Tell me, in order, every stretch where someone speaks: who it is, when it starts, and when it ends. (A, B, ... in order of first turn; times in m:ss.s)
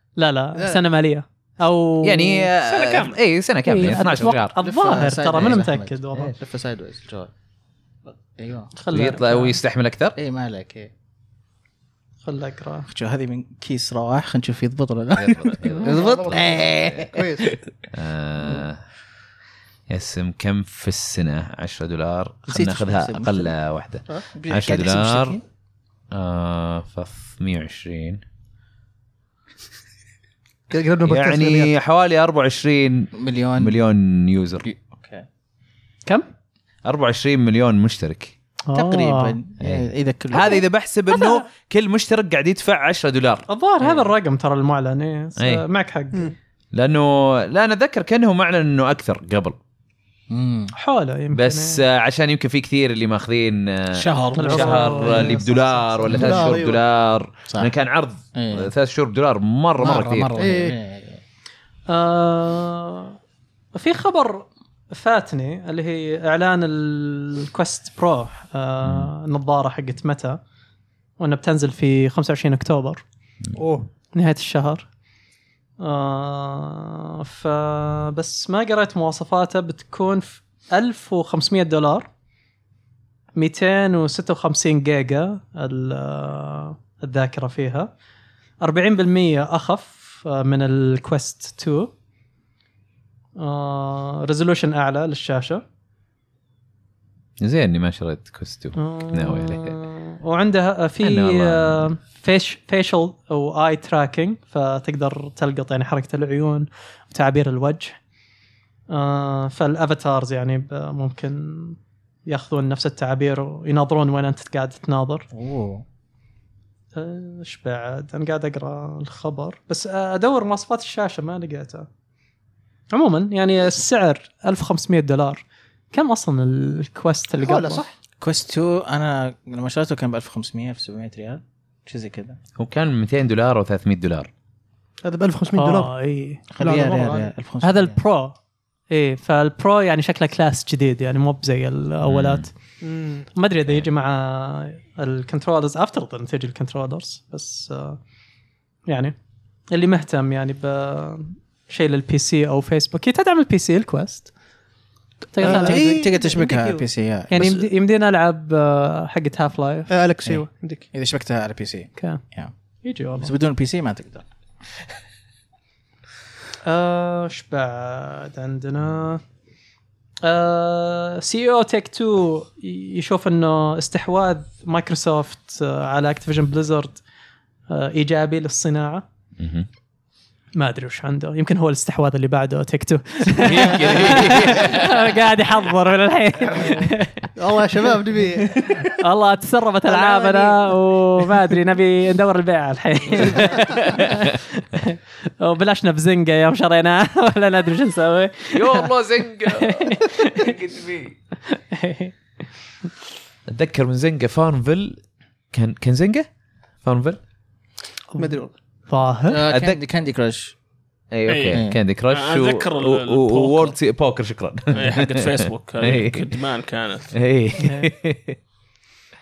0:00.2-0:02.5 A
0:02.0-0:04.5 B
0:02.7-0:03.2 C
0:03.6-0:06.3 A
0:04.6-0:07.3 D
0:08.3-0:08.7 D
0:08.8-0:09.6 A
0:08.9-0:10.2 B
0:10.2-0:10.9 D
0:12.2-0:12.9 A
0:12.9-0:17.5 D
0:15.2-0:17.1 B
0:15.6-0:17.6 E
0:17.9-0:18.8 B
0:19.9-0:25.4 B
0:22.5-0:23.5 D
0:24.3-0:25.4 D
0:26.1-0:28.2 B
0:30.7-0:31.7 E
0:31.0-0:34.6 B
0:33.1-0:33.8 D
0:34.6-0:35.2 D
0:36.8-0:38.3 B
0:38.7-0:39.4 A
0:38.7-0:40.6 D
0:39.6-0:43.4 B
0:41.1-0:41.4 A
0:43.5-0:46.3 A
0:43.8-0:44.1 D
0:45.4-0:45.6 B
0:46.7-0:49.6 B
0:50.3-0:50.7 D
0:50.7-0:51.8 A
0:51.3-1:00.3 B
0:53.9-0:54.9 C
0:54.4-0:56.0 A
0:56.1-0:56.5 D
0:56.1-0:56.8 E
0:58.3-0:58.7 D
0:59.8-1:01.2 D
1:00.4-1:00.8 E
1:01.9-1:03.2 A
1:03.7-1:10.4 A
1:08.8-1:09.1 B
1:11.2-1:13.0 A
1:13.5-1:13.9 E
1:14.1-1:14.9 A
1:15.8-1:22.1 A
1:23.4-1:27.9 A
1:28.6-1:31.9 A
1:33.4-1:35.6 A
1:37.4-1:39.8 B
1:38.8-1:48.0 A
1:41.0-1:41.9 B
1:48.9-1:55.3 A
1:55.3-1:55.8 D
1:56.9-2:01.9 A
2:02.9-2:07.8 A
2:07.4-2:07.9 E
2:08.2-2:12.4 D
2:12.6-2:14.3 B
2:15.0-2:15.9 E
2:15.6-2:16.4 A
2:16.5-2:18.0 D
2:16.6-2:17.3 E
2:17.6-2:18.4 A
2:18.9-2:22.5 A
2:22.0-2:22.5 B
2:22.8-2:23.3 E
2:23.3-2:28.0 A
2:28.9-2:29.2 A
2:29.7-2:34.3 A
2:35.3-2:39.9 A
2:35.4-2:37.3 D
2:35.4-2:36.7 E
2:37.3-2:37.7 E
2:39.9-2:40.9 E
2:40.9-2:42.5 D
2:42.8-2:43.3 A
2:43.2-2:44.2 D
2:46.6-2:49.2 A
2:50.2-2:57.0 A
2:57.7-2:59.0 A
2:59.4-2:59.7 B
3:00.5-3:07.3 A
3:03.3-3:05.2 B
3:06.6-3:06.8 E
3:07.4-3:08.9 E
3:08.8-3:18.9 A
3:09.9-3:10.8 E
3:13.7-3:14.3 B
3:18.5-3:21.1 B
3:19.4-3:20.5 A
3:21.4-3:22.1 A
3:23.5-3:25.0 B
3:25.5-3:26.3 B
3:26.8-3:27.2 B
3:28.1-3:29.4 A
3:28.2-3:28.5 E
3:29.3-3:30.5 D
3:29.5-3:29.8 B
3:31.1-3:36.3 B
3:31.3-3:33.8 C
3:31.5-3:31.8 D
3:34.7-3:37.1 C
3:37.1-3:38.4 B
3:37.6-3:37.9 A